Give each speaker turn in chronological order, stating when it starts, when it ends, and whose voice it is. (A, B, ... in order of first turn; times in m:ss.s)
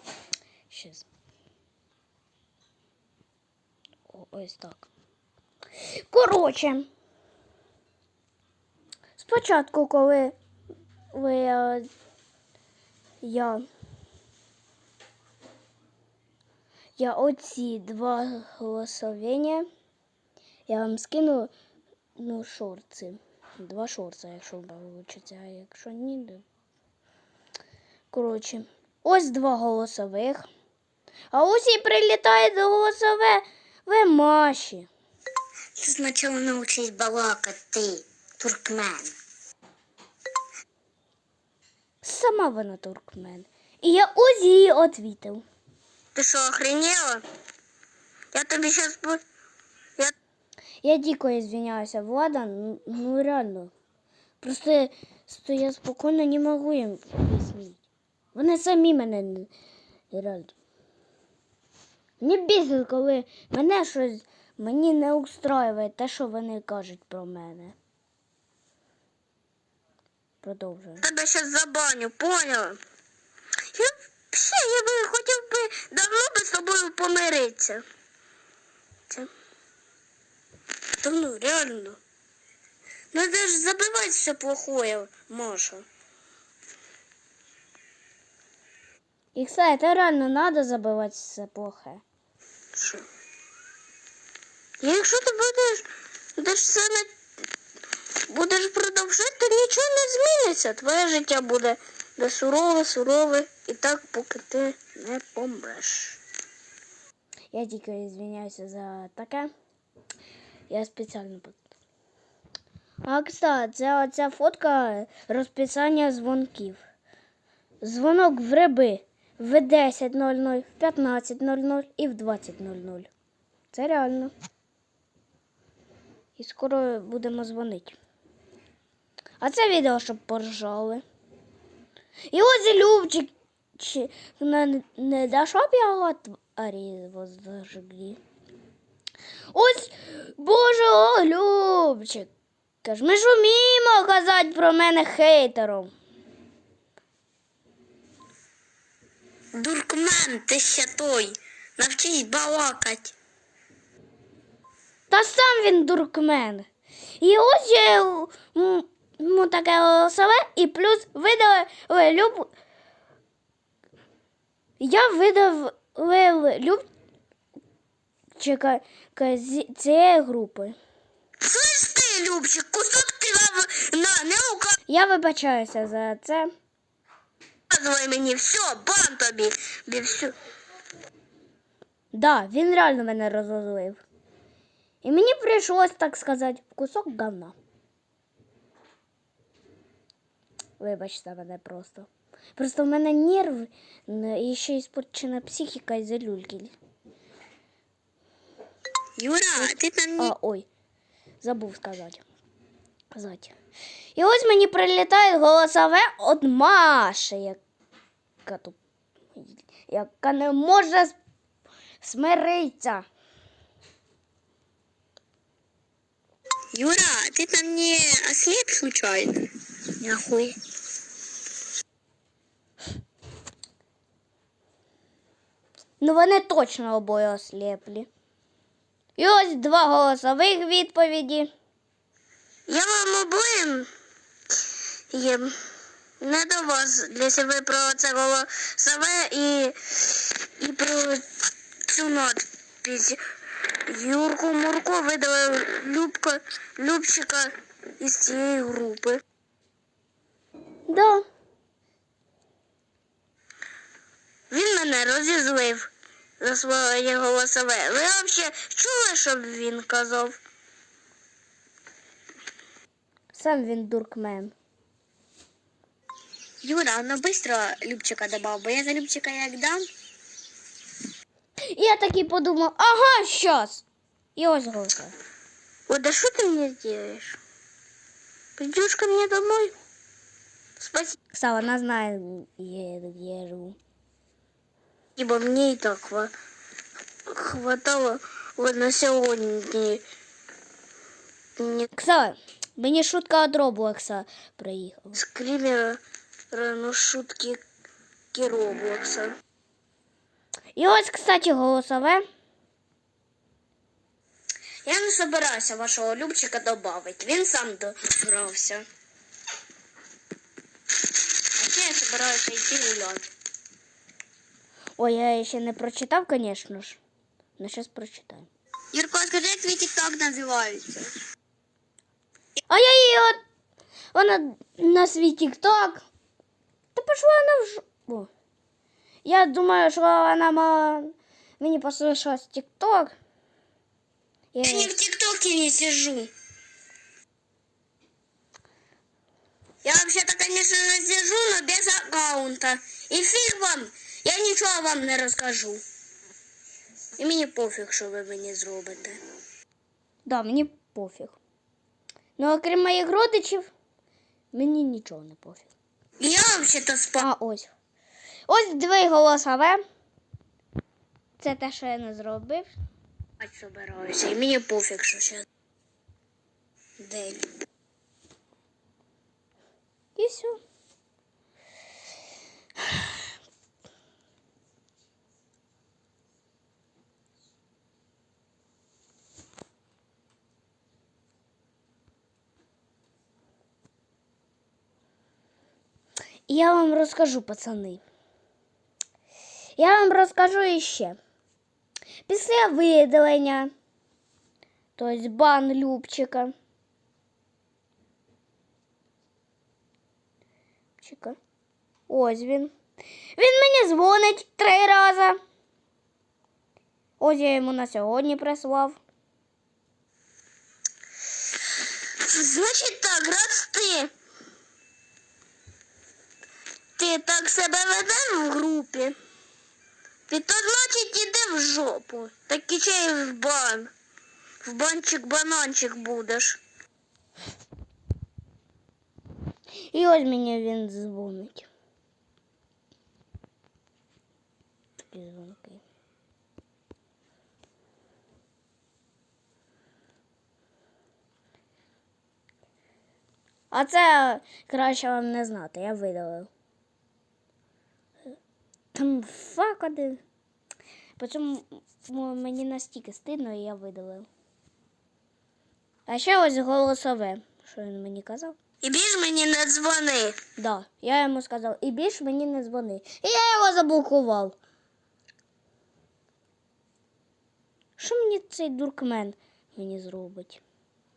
0:00.7-0:01.1 A
0:04.1-0:04.9 A
0:06.1-0:06.9 A
0:09.2-0:10.4 A
0:11.1-0:11.9 A
0:13.2-0:13.6 A
0:17.0-0:19.7 A
0:20.7-0:21.5 A
0:22.2-0:26.4 A
0:28.1-0:30.5 A
0:31.3-0:34.9 A
0:35.8-0:39.2 B
0:42.0-0:45.4 A
0:46.2-0:47.2 B
0:48.3-0:49.2 B
0:50.8-0:53.7 A
0:54.4-0:57.8 A
0:58.4-0:59.5 A
1:00.1-1:00.5 A
1:02.2-1:07.8 A
1:10.4-1:11.1 A
1:11.0-1:12.8 B
1:13.7-1:17.8 B
1:21.0-1:22.0 B
1:23.1-1:25.9 B
1:29.4-1:32.0 A
1:32.8-1:33.1 B
1:34.8-1:37.1 B
1:38.3-1:46.2 B
1:47.5-1:49.5 A
1:50.7-1:51.7 A
1:53.0-1:56.8 A
1:57.8-2:03.1 A
2:03.7-2:04.3 A
2:06.4-2:08.0 A
2:09.4-2:11.0 A
2:12.3-2:18.2 A
2:19.5-2:22.3 A
2:22.8-2:25.9 A
2:29.5-2:33.1 B
2:35.1-2:36.7 A
2:37.2-2:42.5 A
2:44.8-2:46.8 A
2:48.4-2:50.8 A
2:51.4-2:54.8 B
2:54.9-2:56.5 A
2:57.7-3:00.4 B
3:02.1-3:04.0 A
3:05.0-3:07.6 A
3:10.8-3:16.7 A
3:19.2-3:20.3 B
3:19.6-3:20.7 A
3:21.4-3:22.2 A
3:23.1-3:23.5 A
3:24.2-3:27.6 A
3:28.4-3:28.8 A
3:29.4-3:31.2 A
3:32.0-3:33.0 A
3:36.7-3:40.6 B
3:46.0-3:48.1 A
3:49.2-3:51.5 A
3:52.7-3:53.9 B
3:55.1-3:55.6 B
3:56.2-4:01.3 B
4:01.9-4:03.2 B
4:03.7-4:09.2 B
4:10.9-4:11.3 A
4:14.5-4:20.4 B
4:23.3-4:24.5 A
4:26.6-4:29.9 B
4:31.7-4:33.8 A
4:34.4-4:35.1 A
4:35.9-4:37.4 B
4:38.6-4:39.7 B
4:40.8-4:41.2 B
4:41.3-4:43.8 A
4:45.2-4:46.3 B
4:47.3-4:50.0 B
4:51.6-4:51.9 B
4:51.9-4:55.2 A
4:55.2-4:57.6 B
4:58.3-4:59.4 B
5:00.8-5:02.2 A
5:04.8-5:08.8 B
5:11.6-5:13.3 B
5:15.0-5:17.0 A
5:17.6-5:18.5 A
5:18.9-5:21.1 B
5:22.7-5:23.4 A
5:24.1-5:26.1 A
5:27.0-5:28.3 A
5:29.2-5:33.2 A
5:34.5-5:34.9 A
5:34.6-5:36.3 B
5:39.8-5:45.8 B
5:47.2-5:49.2 B
5:50.3-5:51.4 A
5:52.4-5:53.7 A
5:54.5-5:55.7 A
5:56.2-5:57.2 B
5:57.2-5:57.7 A
5:58.5-5:59.8 A
6:01.4-6:02.7 A
6:03.4-6:05.4 B
6:07.0-6:07.5 B
6:10.2-6:10.6 A
6:26.5-6:28.0 A
6:29.8-6:31.2 A
6:32.3-6:33.7 A
6:35.0-6:36.5 A
6:41.0-6:41.4 A
6:42.1-6:42.7 A
6:43.4-6:45.4 A
6:47.2-6:49.0 A
6:52.2-6:54.1 B
6:57.0-6:59.2 B
7:00.3-7:03.9 B
7:04.6-7:06.6 B
7:09.9-7:11.7 A
7:15.1-7:15.8 A
7:23.7-7:26.5 A
7:28.9-7:30.2 A
7:31.2-7:34.3 A
7:36.1-7:38.6 A
7:38.8-7:40.4 B
7:40.6-7:44.6 A
7:48.0-7:50.6 A